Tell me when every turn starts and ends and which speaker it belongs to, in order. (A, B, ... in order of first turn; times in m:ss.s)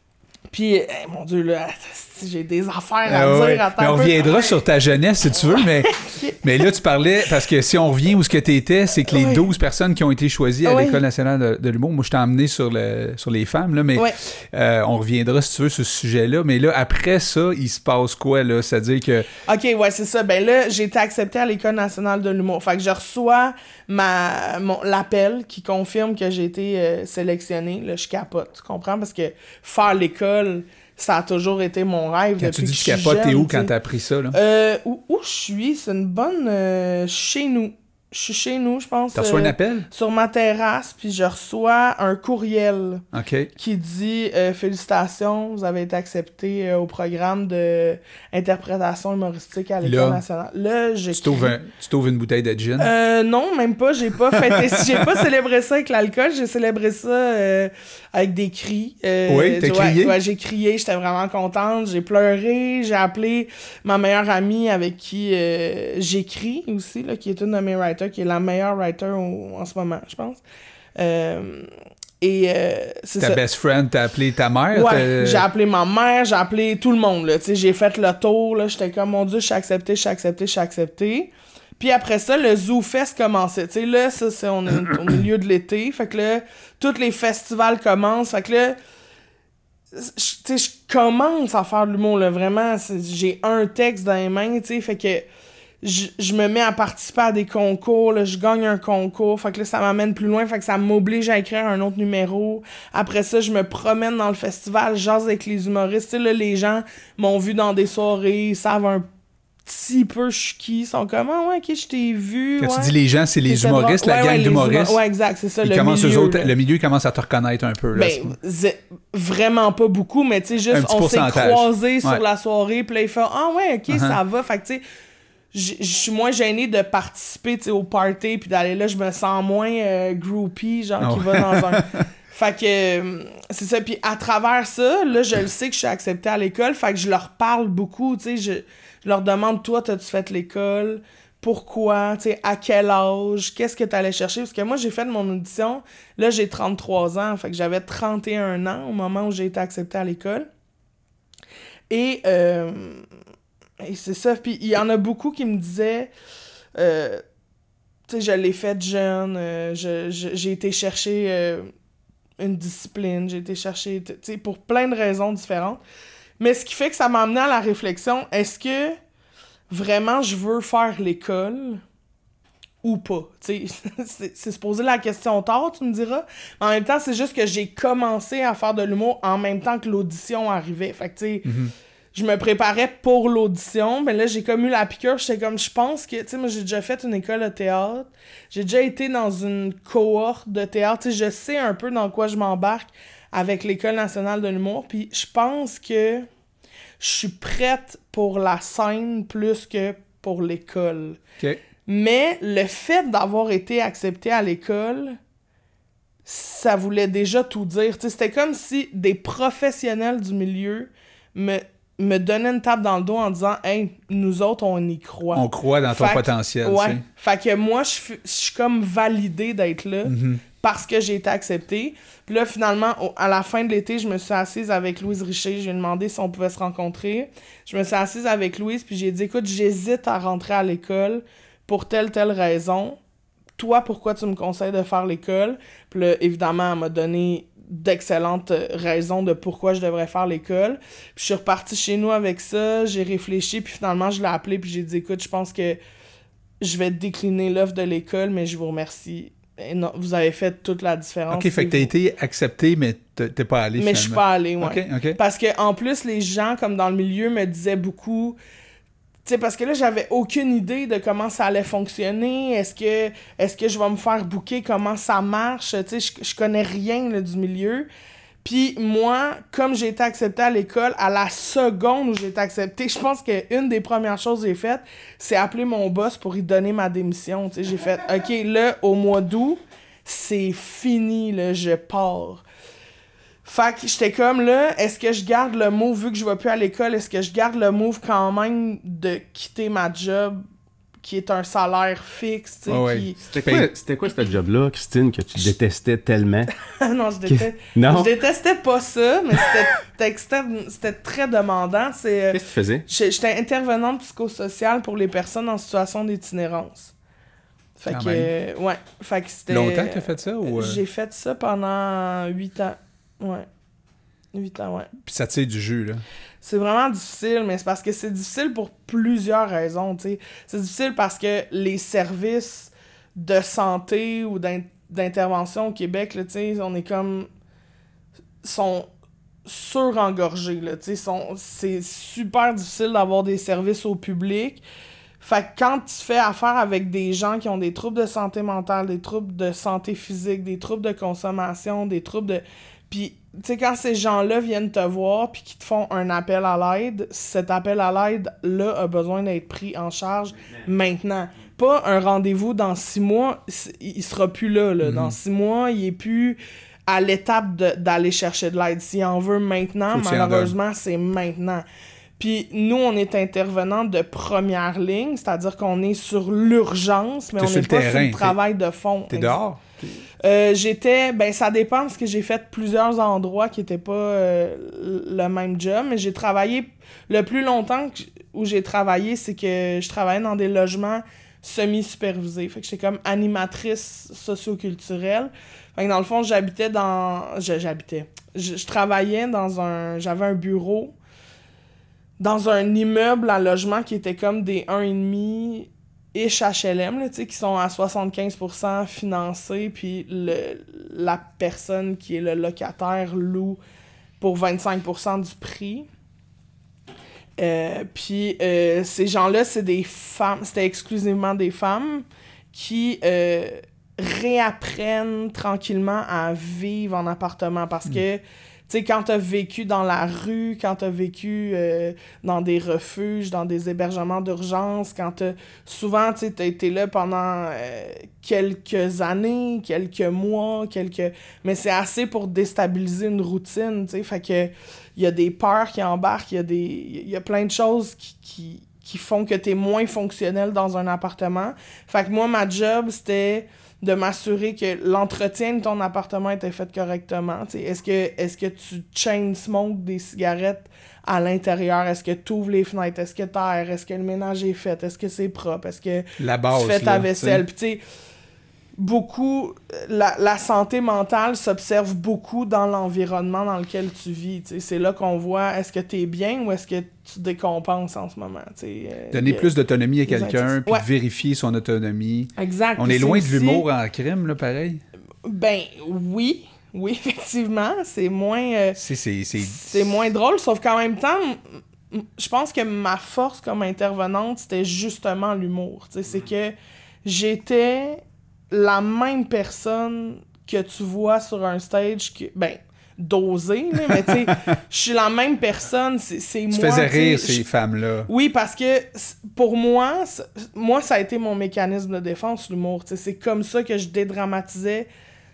0:00.5-0:04.5 A
0:03.0-0:19.3 B
0:05.8-0:06.4 A
0:09.1-0:09.5 A
0:10.6-0:11.0 A
0:19.5-0:33.7 A
0:32.4-0:34.4 B
0:34.3-0:43.0 A
0:39.1-0:39.9 B
0:43.1-0:43.5 B
0:43.6-0:51.6 A
0:49.8-0:50.2 B
0:51.1-0:52.9 B
0:52.8-1:10.4 A
0:54.3-0:55.0 B
0:59.3-1:00.2 B
1:11.0-1:11.7 A
1:12.2-1:13.4 A
1:13.2-1:15.4 B
1:14.7-1:28.8 A
1:29.9-1:35.2 A
1:35.8-1:49.1 A
1:49.6-1:52.9 A
1:52.6-1:55.0 B
1:53.4-1:56.5 A
1:55.6-1:58.3 B
1:57.9-2:04.8 A
2:00.7-2:02.2 B
2:03.9-2:04.2 B
2:05.5-2:30.5 A
2:11.0-2:12.0 B
2:31.9-2:33.0 A
2:33.8-2:36.1 A
2:36.7-2:37.2 A
2:38.1-2:41.7 A
2:42.4-2:45.8 A
2:46.4-2:49.0 A
2:49.7-2:51.8 A
2:52.8-3:01.5 A
3:01.4-3:01.7 B
3:02.1-3:16.3 A
3:17.0-3:21.2 A
3:21.8-3:25.2 A
3:26.2-3:53.0 A
3:35.3-3:37.0 B
3:40.0-3:40.4 B
3:53.6-4:05.8 A
4:06.6-4:11.9 A
4:11.3-4:15.2 B
4:13.8-4:18.4 A
4:19.2-4:27.9 A
4:28.4-4:42.4 A
4:43.4-4:50.4 A
4:51.0-4:53.2 A
4:52.7-4:53.7 B
4:53.3-4:56.5 C
4:56.6-5:06.9 A
4:57.3-4:58.1 C
5:02.3-5:02.8 C
5:07.8-5:13.4 A
5:07.9-5:08.3 B
5:09.5-5:10.8 B
5:14.3-5:14.9 A
5:15.0-5:16.0 B
5:16.4-5:27.3 A
5:28.4-5:28.9 A
5:29.4-5:34.6 A
5:35.2-6:01.6 A
5:54.8-5:55.2 B
5:59.9-6:00.5 B
6:02.2-6:09.4 A
6:07.4-6:08.4 B
6:09.1-6:09.9 B
6:10.2-6:30.9 A
6:32.2-6:43.6 A
6:44.2-6:45.9 A
6:47.4-7:37.8 A
7:36.2-7:37.4 B
7:38.8-7:49.5 A
7:49.1-7:54.8 B
7:50.1-7:50.8 A
7:52.4-7:53.6 A
7:55.2-7:58.8 A
7:58.8-7:59.8 B
7:59.4-8:06.5 A
8:07.0-8:17.4 A
8:13.9-8:14.4 B
8:16.5-8:18.1 B
8:18.1-8:24.9 A